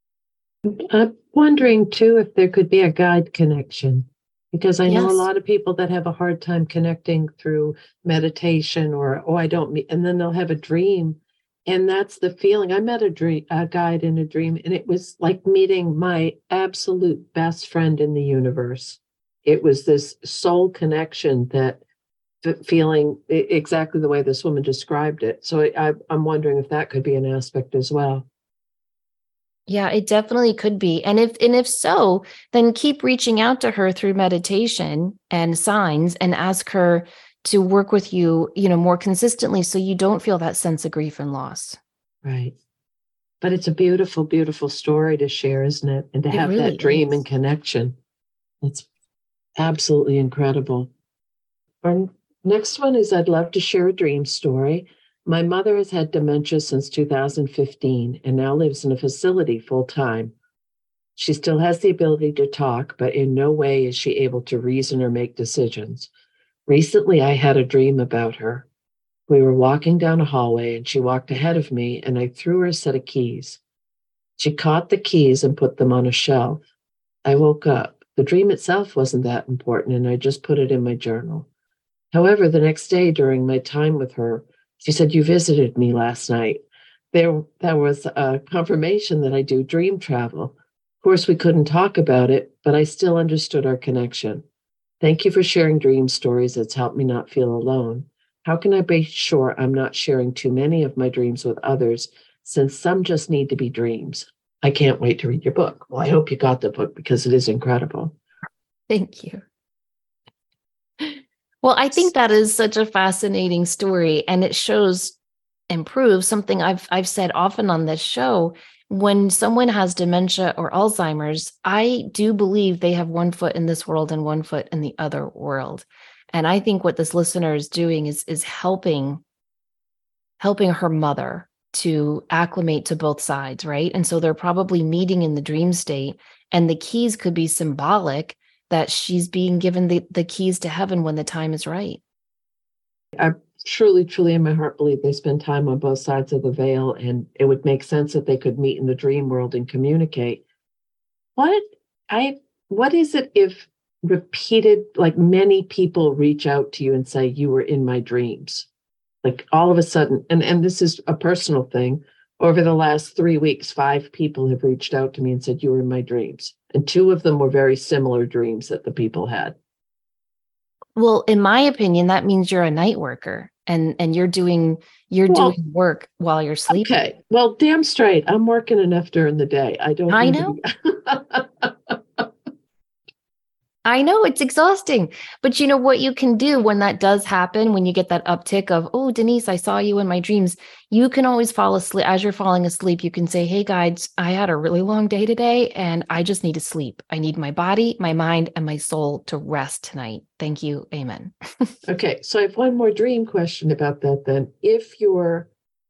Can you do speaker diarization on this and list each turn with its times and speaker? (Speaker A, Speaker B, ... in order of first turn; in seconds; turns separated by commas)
Speaker A: 0.7-21.8, Speaker B: 4.9-5.3, Speaker A: 22.4-28.2, Speaker B: 29.7-41.8, Speaker A: 42.2-42.5, Speaker A: 43.4-48.0, Speaker B: 46.3-47.2, Speaker A: 48.6-48.9, Speaker A: 49.6-50.9, Speaker A: 51.8-60.3, Speaker A: 61.1-66.1, Speaker A: 66.7-68.7, Speaker A: 69.3-73.6, Speaker A: 74.4-76.6, Speaker A: 77.2-81.5, Speaker A: 82.1-94.4, Speaker A: 95.0-108.1, Speaker B: 108.9-109.4, Speaker B: 111.0-115.2, Speaker B: 115.7-129.2, Speaker B: 130.4-142.0, Speaker A: 143.2-150.4, Speaker A: 151.3-158.7, Speaker A: 159.2-169.6, Speaker B: 170.9-176.9, Speaker A: 175.3-175.6, Speaker A: 176.7-182.3, Speaker B: 180.1-180.6, Speaker B: 183.8-201.7, Speaker A: 201.8-205.5